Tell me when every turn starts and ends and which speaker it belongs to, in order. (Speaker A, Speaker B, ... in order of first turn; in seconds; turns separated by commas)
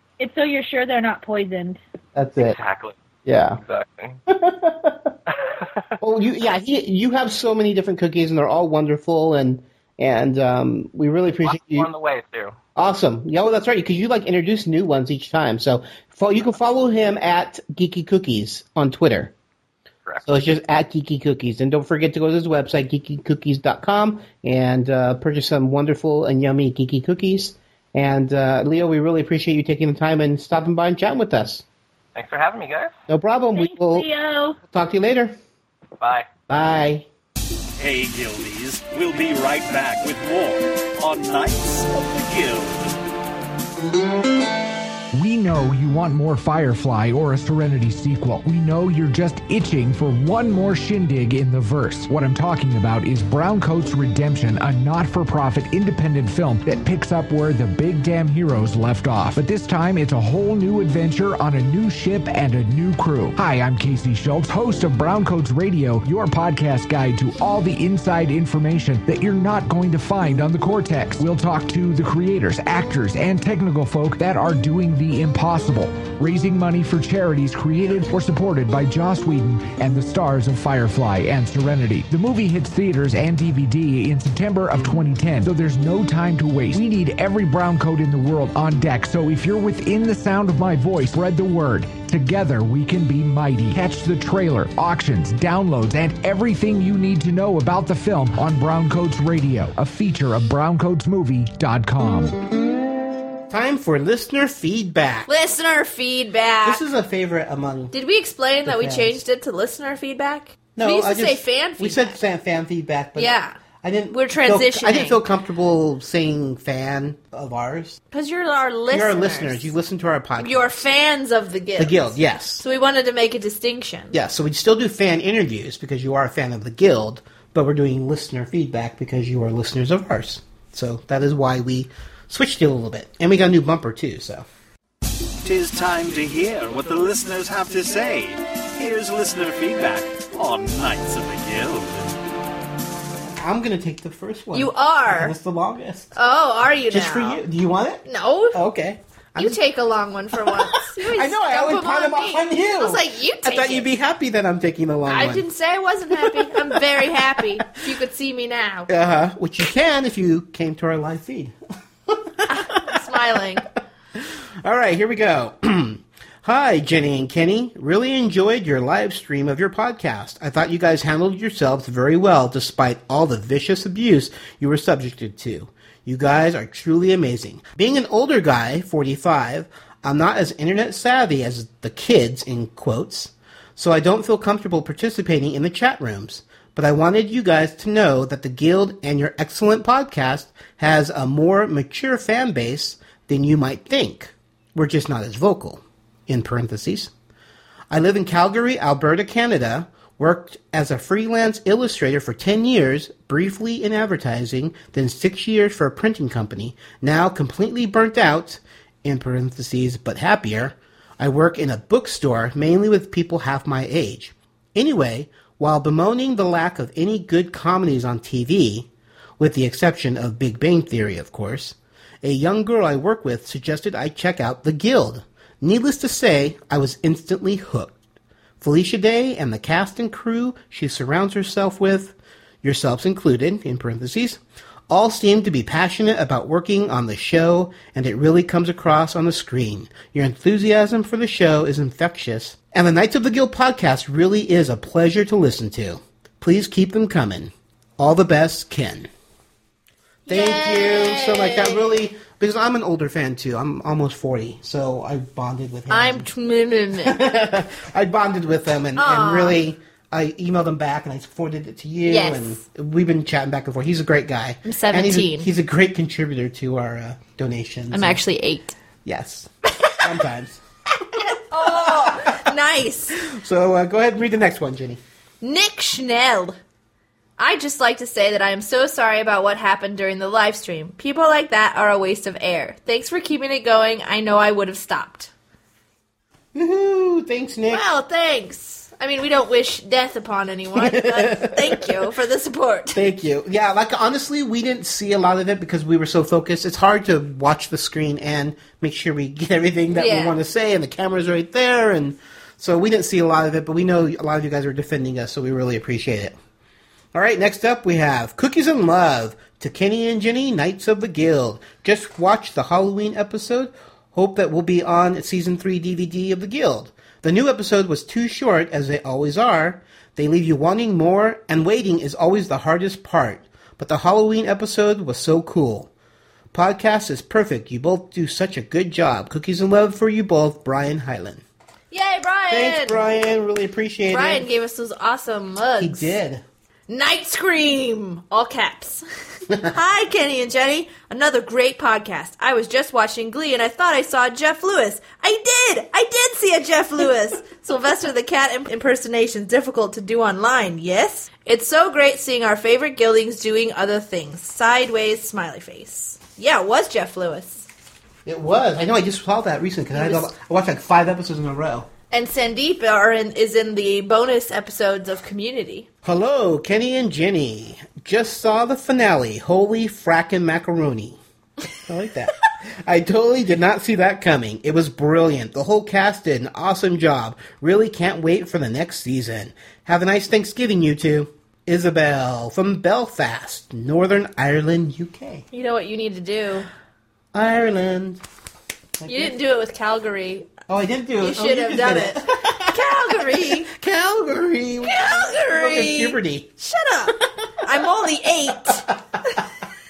Speaker A: 0.2-1.8, Speaker B: 2.1-2.6, Speaker C: 2.4-3.0, Speaker B: 3.2-3.6, Speaker C: 3.6-4.2, Speaker B: 4.3-5.1, Speaker C: 5.3-5.9, Speaker B: 6.0-11.9, Speaker C: 11.4-12.6, Speaker B: 12.8-19.3, Speaker B: 20.2-31.6, Speaker C: 32.1-32.9, Speaker B: 33.1-34.1, Speaker A: 33.5-34.6, Speaker B: 34.6-35.4, Speaker C: 36.0-36.3, Speaker B: 36.5-37.1, Speaker D: 37.8-43.0, Speaker E: 45.1-102.3, Speaker B: 103.5-105.3, Speaker F: 105.3-106.8, Speaker B: 106.6-107.9, Speaker F: 107.9-112.2, Speaker B: 108.6-109.2, Speaker B: 110.8-118.0, Speaker F: 113.2-113.6, Speaker F: 114.1-115.2, Speaker F: 118.1-119.7, Speaker B: 118.9-120.8, Speaker F: 120.4-124.1, Speaker B: 121.8-122.6, Speaker B: 124.1-134.4, Speaker D: 135.4-142.2, Speaker B: 143.2-146.1, Speaker F: 144.5-145.3, Speaker F: 146.1-147.4, Speaker B: 146.9-149.6, Speaker F: 148.0-148.6, Speaker F: 149.4-153.9, Speaker B: 150.3-155.4, Speaker F: 155.1-158.9, Speaker B: 156.1-157.4, Speaker B: 158.9-161.5, Speaker B: 162.1-163.0, Speaker F: 162.5-163.6, Speaker B: 164.2-197.1, Speaker B: 197.9-218.9, Speaker B: 219.4-228.0, Speaker B: 228.6-249.1, Speaker F: 250.3-252.0, Speaker B: 250.3-256.3, Speaker F: 255.9-257.2, Speaker B: 257.0-268.2, Speaker F: 258.9-259.6, Speaker F: 262.1-262.6, Speaker F: 264.6-265.5, Speaker F: 267.9-268.8, Speaker B: 269.0-269.5, Speaker B: 270.0-270.6, Speaker F: 271.2-273.1, Speaker B: 271.5-272.4, Speaker B: 273.2-275.0, Speaker F: 275.4-276.5, Speaker F: 277.4-285.3, Speaker B: 286.5-287.8, Speaker F: 287.7-293.1, Speaker B: 290.8-291.9, Speaker B: 292.9-306.3, Speaker F: 299.9-300.4, Speaker B: 307.1-325.9, Speaker B: 326.5-331.4, Speaker F: 331.9-333.0, Speaker B: 332.5-334.5, Speaker F: 334.1-336.2, Speaker B: 335.8-336.4, Speaker F: 336.9-339.0, Speaker F: 339.7-357.7, Speaker B: 358.2-361.9, Speaker F: 359.9-360.3, Speaker F: 362.1-365.9, Speaker B: 366.0-371.2, Speaker B: 371.8-385.4, Speaker F: 385.5-386.7, Speaker B: 387.3-388.2, Speaker B: 389.0-389.3, Speaker F: 389.1-390.5, Speaker B: 390.7-396.5, Speaker F: 391.2-393.7, Speaker F: 394.8-398.9